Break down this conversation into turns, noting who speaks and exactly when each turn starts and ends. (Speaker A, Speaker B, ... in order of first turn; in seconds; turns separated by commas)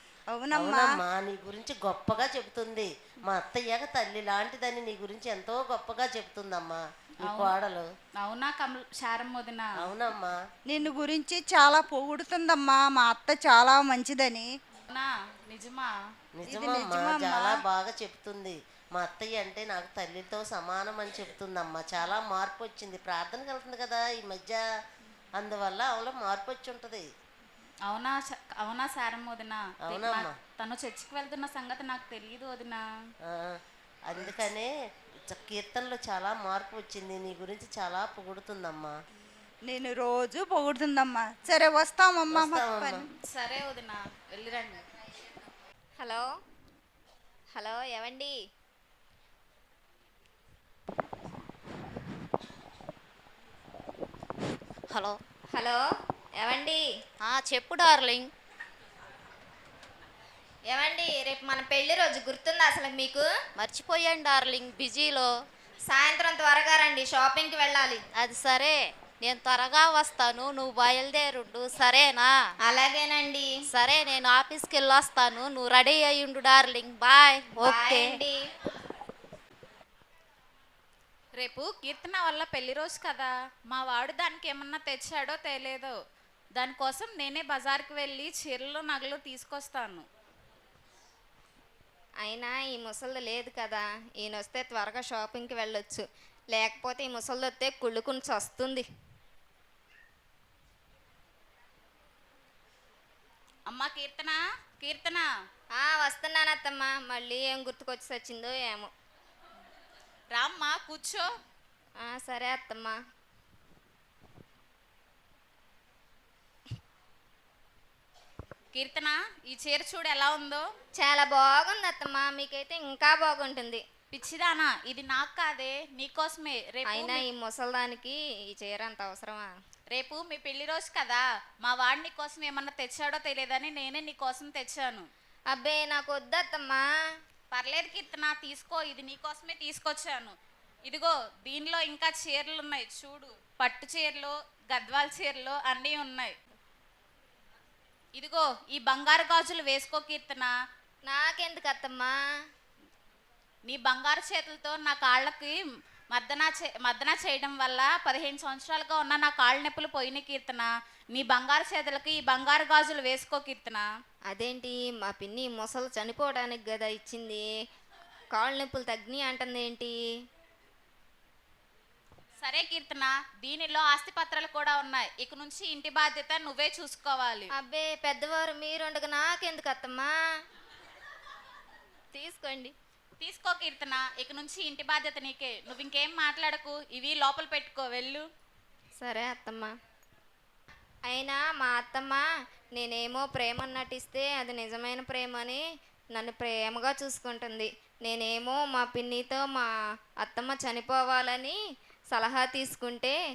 Speaker A: 0.3-1.0, Speaker B: 0.5-7.9, Speaker C: 7.2-7.5, Speaker C: 8.2-9.9, Speaker B: 9.8-10.4, Speaker A: 10.7-14.5, Speaker C: 14.9-15.9, Speaker B: 16.4-24.6, Speaker A: 16.5-17.6, Speaker B: 25.4-27.1, Speaker C: 27.9-32.8, Speaker B: 29.9-30.4, Speaker B: 33.2-34.7, Speaker B: 35.3-38.9, Speaker A: 39.7-43.1, Speaker B: 42.3-43.0, Speaker C: 43.3-44.8, Speaker D: 46.0-46.3, Speaker D: 47.5-48.4, Speaker E: 54.9-55.2, Speaker D: 55.5-55.8, Speaker D: 56.4-56.8, Speaker E: 57.2-58.3, Speaker D: 60.7-63.3, Speaker E: 63.6-65.3, Speaker D: 65.9-68.0, Speaker E: 68.2-72.3, Speaker D: 72.6-73.5, Speaker E: 73.7-78.2, Speaker D: 77.6-78.4, Speaker C: 81.4-86.0, Speaker C: 86.6-90.1, Speaker D: 92.2-98.9, Speaker C: 103.7-105.2, Speaker D: 105.8-108.9, Speaker C: 110.3-111.3, Speaker D: 112.0-113.0, Speaker C: 118.7-120.6, Speaker D: 121.0-123.8, Speaker C: 124.1-127.2, Speaker D: 126.9-129.5, Speaker C: 129.9-135.1, Speaker D: 135.5-136.8, Speaker C: 137.5-140.4, Speaker C: 140.9-146.4, Speaker C: 148.2-150.5, Speaker D: 151.1-152.2, Speaker C: 153.7-155.5, Speaker C: 156.1-163.8, Speaker D: 164.3-167.4, Speaker D: 168.3-169.9, Speaker C: 172.4-177.5, Speaker D: 177.6-180.1, Speaker D: 182.1-182.7, Speaker C: 183.2-188.3, Speaker D: 189.0-189.7, Speaker D: 191.1-192.2, Speaker D: 192.8-195.6, Speaker D: 196.2-199.7, Speaker D: 200.2-201.6, Speaker D: 202.1-203.2